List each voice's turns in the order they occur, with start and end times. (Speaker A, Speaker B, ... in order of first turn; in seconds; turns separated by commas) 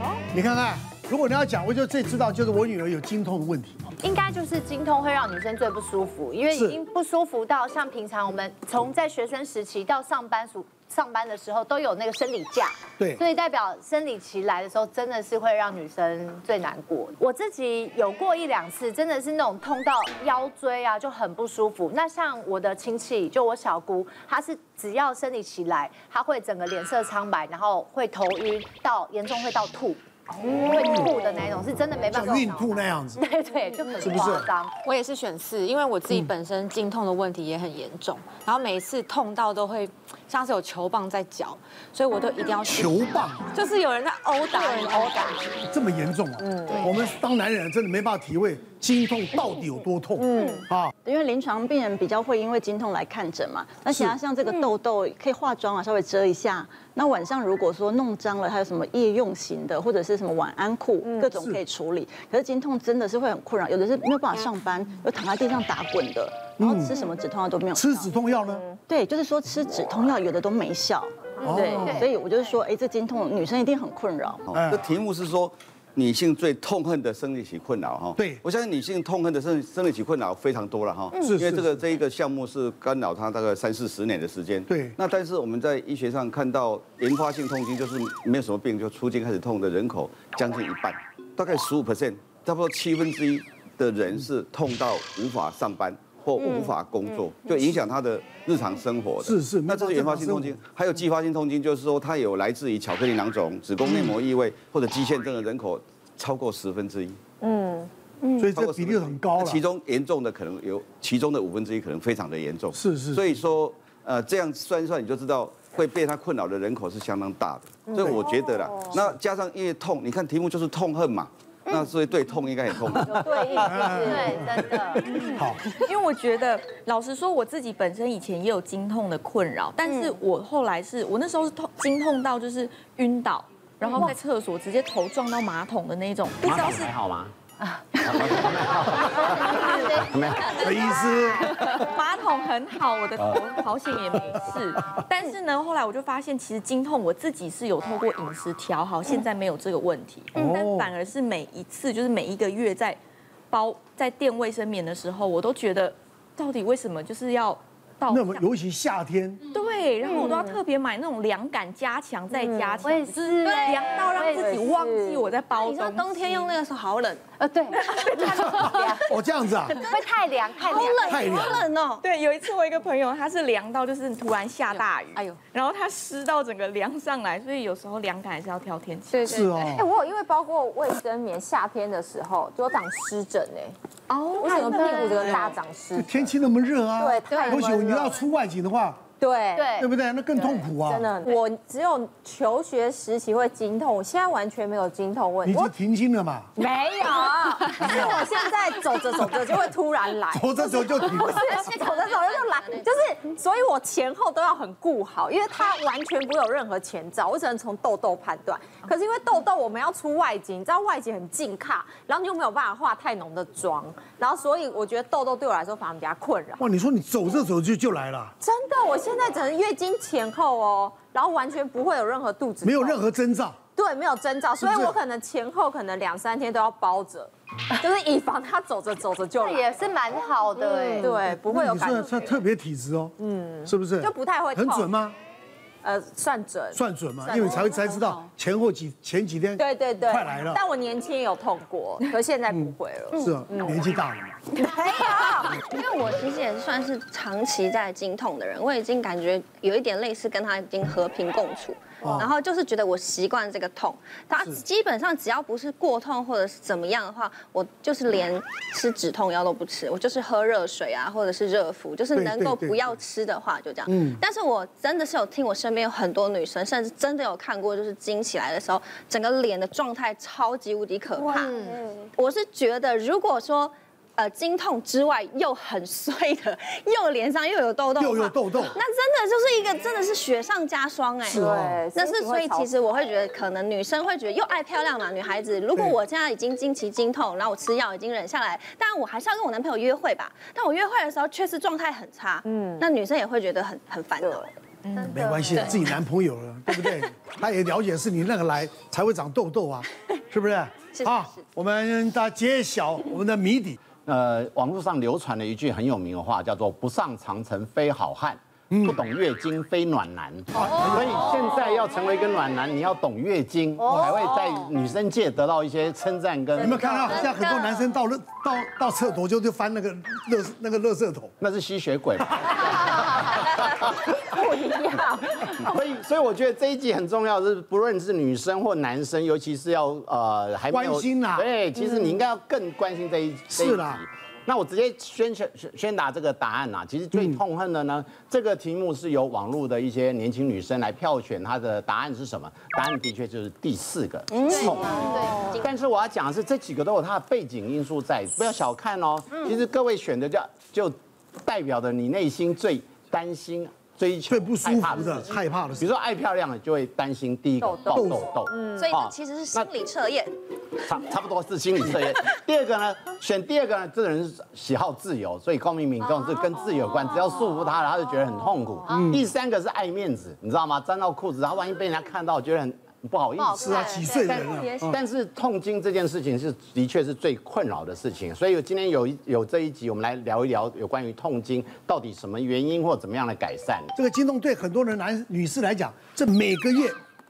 Speaker A: 0.3-3.9, Speaker B: 4.0-34.7, Speaker A: 6.5-6.8, Speaker A: 13.0-13.2, Speaker A: 30.8-31.1, Speaker A: 32.1-33.2, Speaker A: 34.0-34.5, Speaker C: 34.8-42.9, Speaker A: 42.7-43.5, Speaker C: 43.5-45.4, Speaker B: 44.6-45.1, Speaker A: 45.7-50.9, Speaker D: 46.4-46.9, Speaker D: 50.2-50.6, Speaker E: 50.4-50.6, Speaker F: 51.0-68.2, Speaker A: 53.9-54.2, Speaker A: 61.2-61.6, Speaker A: 66.6-67.0, Speaker A: 67.8-68.6, Speaker F: 68.8-74.4, Speaker B: 71.4-72.0, Speaker A: 71.4-72.0, Speaker G: 74.4-107.2, Speaker A: 74.5-74.8, Speaker A: 78.2-78.4, Speaker A: 81.2-81.8, Speaker A: 84.7-85.0, Speaker E: 96.4-97.5, Speaker A: 99.2-100.6, Speaker D: 107.4-107.9, Speaker E: 108.2-108.5, Speaker A: 108.4-109.6, Speaker G: 108.5-123.8, Speaker A: 112.7-113.3, Speaker A: 117.9-118.3, Speaker E: 121.7-122.5, Speaker D: 123.2-124.3, Speaker B: 123.6-125.1, Speaker A: 123.6-124.8, Speaker H: 125.1-136.9, Speaker A: 125.3-125.6, Speaker E: 129.8-130.2, Speaker B: 133.8-134.2, Speaker I: 136.4-137.3, Speaker I: 138.0-140.7, Speaker B: 138.3-140.1, Speaker A: 140.6-141.4, Speaker B: 140.6-141.2, Speaker H: 141.4-153.0, Speaker I: 143.2-143.5, Speaker A: 150.4-150.9, Speaker H: 153.5-158.5, Speaker A: 158.1-159.4, Speaker H: 159.5-166.5, Speaker E: 160.0-160.4, Speaker D: 160.3-160.6, Speaker D: 162.3-162.8, Speaker B: 162.8-164.6, Speaker D: 164.3-165.3, Speaker E: 165.6-168.9, Speaker B: 167.4-169.2, Speaker A: 168.5-169.8, Speaker B: 169.7-171.6, Speaker E: 169.8-172.0, Speaker A: 171.1-171.5, Speaker H: 171.6-179.4, Speaker C: 174.7-175.4, Speaker A: 179.3-179.9, Speaker D: 179.6-183.8, Speaker H: 184.1-185.6, Speaker D: 184.4-186.3, Speaker B: 184.6-185.1, Speaker A: 186.0-189.0, Speaker D: 187.0-188.1, Speaker B: 187.3-187.7, Speaker D: 189.2-189.7, Speaker B: 189.6-189.9, Speaker A: 189.8-191.1, Speaker D: 190.4-195.7, Speaker A: 195.4-196.5, Speaker D: 196.6-216.6, Speaker A: 197.8-198.2, Speaker A: 200.3-201.5, Speaker E: 201.2-203.0, Speaker A: 216.6-218.3, Speaker D: 218.4-223.0, Speaker A: 222.6-223.6, Speaker D: 223.8-229.7, Speaker A: 224.6-225.0, Speaker B: 229.4-231.2, Speaker D: 230.9-232.4, Speaker A: 231.2-233.1, Speaker D: 233.2-234.9, Speaker A: 233.7-235.2, Speaker D: 235.8-236.8, Speaker A: 236.7-240.6, Speaker D: 239.6-243.8, Speaker A: 242.5-244.4, Speaker E: 243.1-243.4, Speaker D: 244.6-245.5, Speaker E: 244.6-271.6, Speaker A: 252.0-252.3, Speaker A: 262.1-262.8, Speaker A: 263.9-264.2, Speaker B: 271.3-271.8, Speaker E: 272.2-294.5, Speaker A: 278.0-278.8, Speaker A: 281.3-281.8, Speaker D: 281.3-282.7, Speaker D: 292.4-292.8, Speaker H: 294.8-295.2, Speaker B: 295.0-295.7, Speaker A: 295.1-303.8, Speaker E: 300.9-301.4, Speaker I: 304.1-316.9, Speaker A: 308.7-309.0, Speaker A: 310.6-311.2, Speaker A: 313.9-314.1, Speaker A: 316.6-321.3, Speaker E: 316.7-317.8, Speaker I: 321.4-323.8, Speaker D: 324.2-325.6, Speaker I: 325.5-359.7, Speaker A: 330.7-331.5, Speaker A: 333.5-334.0, Speaker E: 344.3-345.8, Speaker B: 344.5-345.5, Speaker A: 354.3-355.9, Speaker D: 357.6-358.8, Speaker A: 357.9-358.2, Speaker E: 358.7-360.3, Speaker I: 360.8-383.9, Speaker B: 373.4-374.4, Speaker A: 373.6-375.0, Speaker A: 383.9-387.0